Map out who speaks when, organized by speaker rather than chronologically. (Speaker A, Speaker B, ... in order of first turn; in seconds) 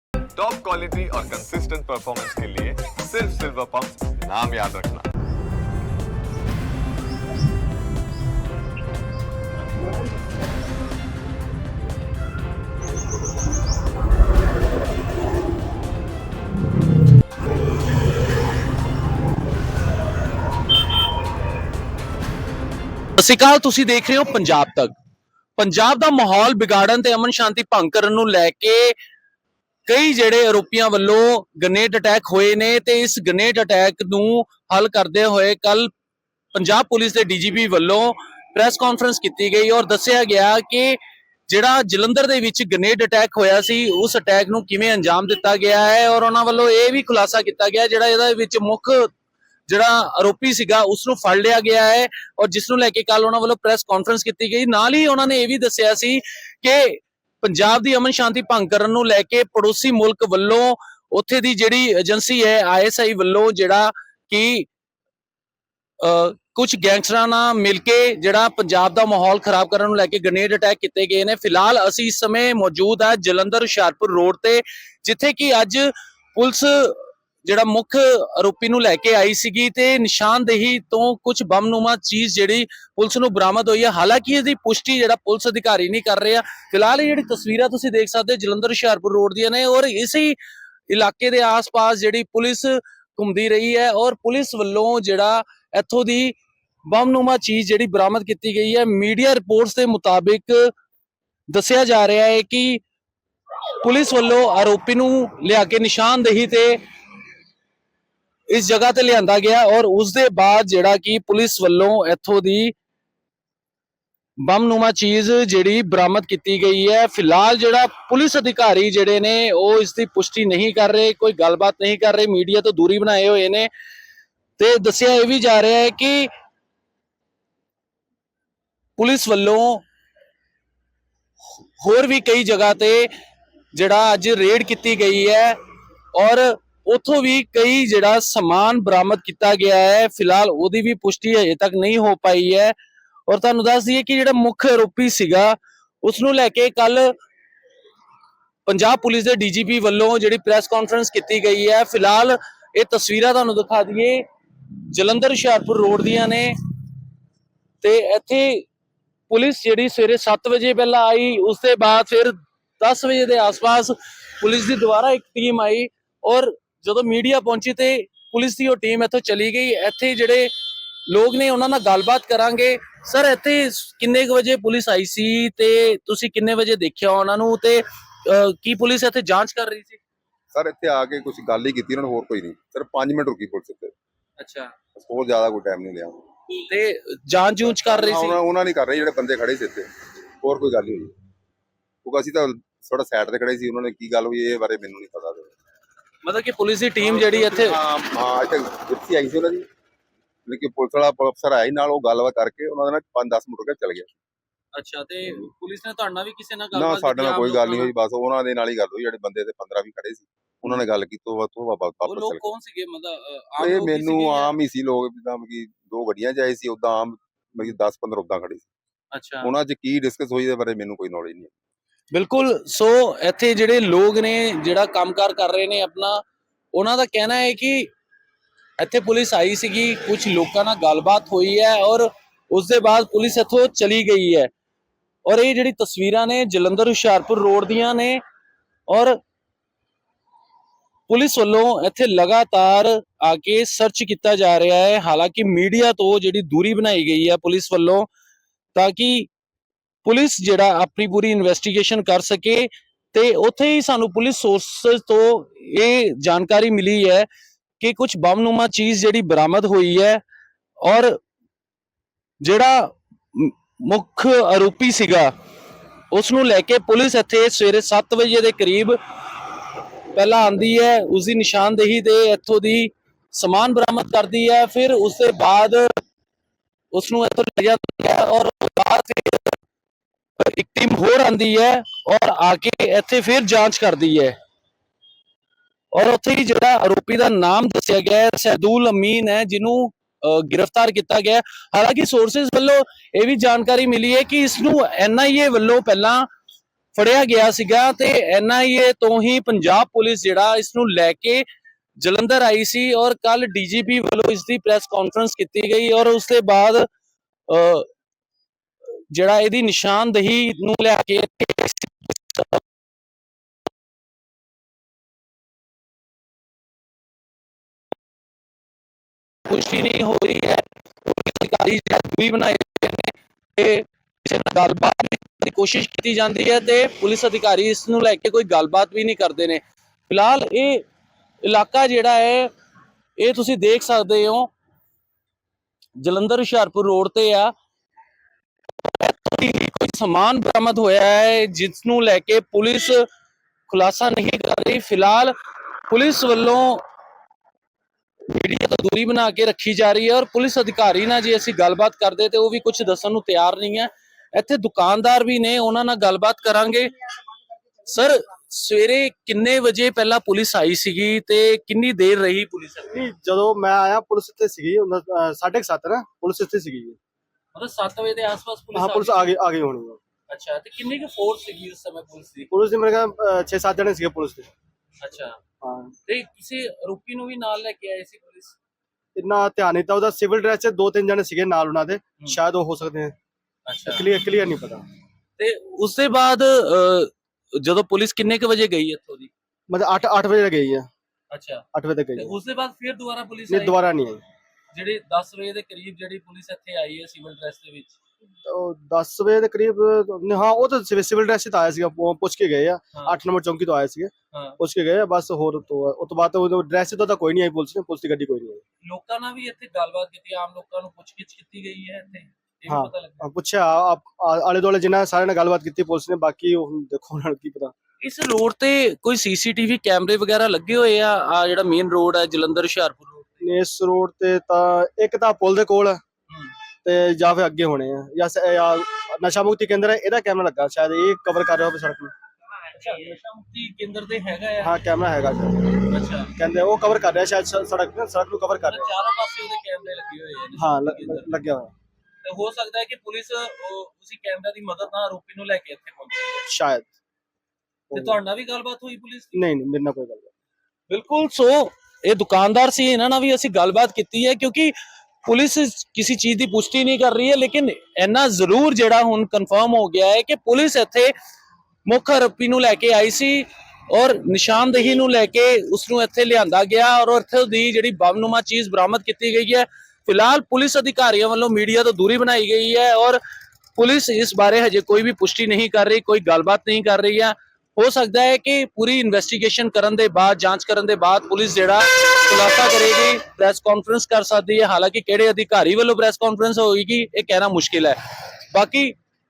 Speaker A: 0.3-5.1
Speaker B: 23.2-24.9, 25.6-29.0, 29.9-35.9, 36.5-49.1, 49.7-64.7, 66.0-90.4, 90.9-100.7, 101.5-102.8, 103.8-106.8, 108.5-112.8, 114.4-123.7, 124.6-126.3, 129.0-129.8, 131.8-133.1, 133.7-135.6, 136.1-142.8, 143.3-147.2, 148.7-154.3, 154.9-156.6, 157.8-158.7, 159.3-170.5, 171.1-180.0, 184.4-184.7, 186.6-188.4, 196.2-197.8, 204.7-207.9, 212.1-214.6, 219.1-219.5, 222.1-227.9, 228.8-234.5, 235.3-238.2, 238.9-239.2, 241.1-248.1, 248.7-249.3, 250.0-257.3, 257.8-260.2, 260.8-261.2, 262.4-265.3, 266.1-269.0, 270.1-276.0, 276.9-279.6, 280.4-284.4, 285.9-296.3, 296.9-301.4, 302.0-306.9, 307.5-307.9, 309.1-312.6, 319.5-330.9, 331.4-332.5, 333.2-334.5, 336.0-337.5, 338.9-343.1, 343.7-345.4, 345.9-346.8, 348.3-357.2, 357.8-363.1, 367.5-369.4, 370.3-372.5, 375.0-375.4, 376.1-378.6, 383.7-384.1, 385.4-389.3, 391.3-393.9, 394.7-398.0, 404.3-404.6, 408.8-413.3, 418.0-423.4, 426.3-426.5, 432.7-434.8, 435.8-436.4, 438.6-441.4, 442.2-446.5, 447.9-449.4, 450.9-461.1, 461.9-473.2, 473.8-489.0
Speaker C: 180.5-183.9, 184.9-186.2, 187.6-189.9, 190.4-191.1, 192.0-195.5, 197.0-199.7, 200.5-204.1, 206.7-212.4, 213.6-218.7, 219.4-221.5
Speaker D: 362.9-367.0, 368.7-370.0, 372.5-374.5, 375.6-375.9, 379.2-383.1, 383.9-384.8, 389.7-390.9, 391.7-392.4, 393.5-394.2, 398.4-408.6, 412.7-417.7, 423.4-426.0, 426.8-432.1, 434.6-438.9, 440.6-441.7, 446.5-446.9, 447.9-448.2, 449.3-450.3